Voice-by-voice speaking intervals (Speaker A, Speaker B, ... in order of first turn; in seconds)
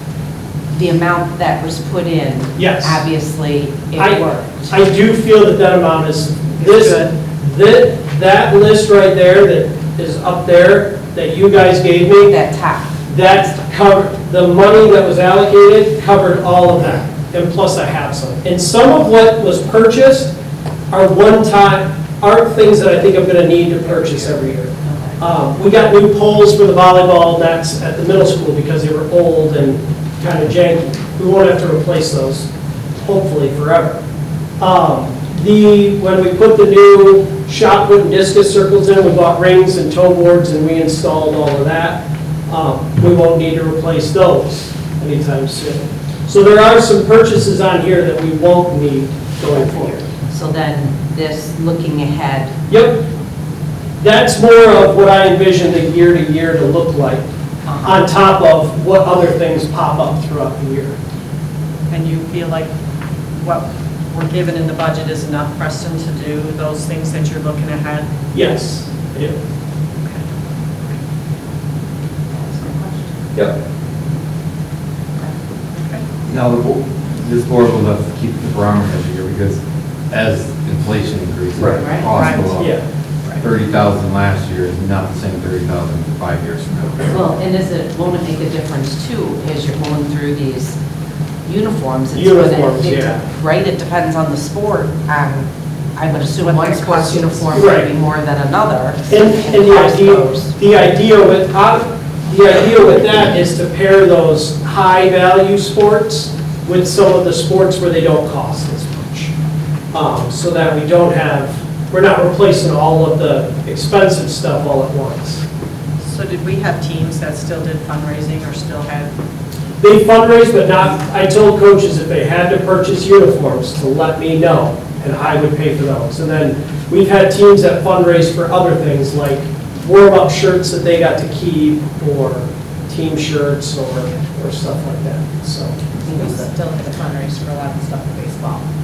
Speaker A: 0.7-4.7, 12.3-12.9, 24.8-25.2, 50.3-52.5, 57.7-58.0, 72.3-73.1, 81.8-82.3, 87.1-90.8, 91.5-100.5
Speaker B: 2.6-3.0, 4.0-12.3, 13.1-20.3, 20.9-34.0, 34.6-50.0, 52.7-53.1, 54.0-57.2, 57.8-61.0, 68.3-69.4, 81.6-81.9, 82.5-82.8, 92.1-93.2, 97.5-97.9, 99.1-109.3, 109.9-115.5, 119.8-136.5
Speaker C: 6.6-7.0, 61.9-62.7, 63.4-68.1, 75.7-76.0, 82.0-82.5, 96.4-97.7, 116.0-119.1
Speaker D: 76.3-82.8, 83.4-87.2
Speaker E: 136.1-138.7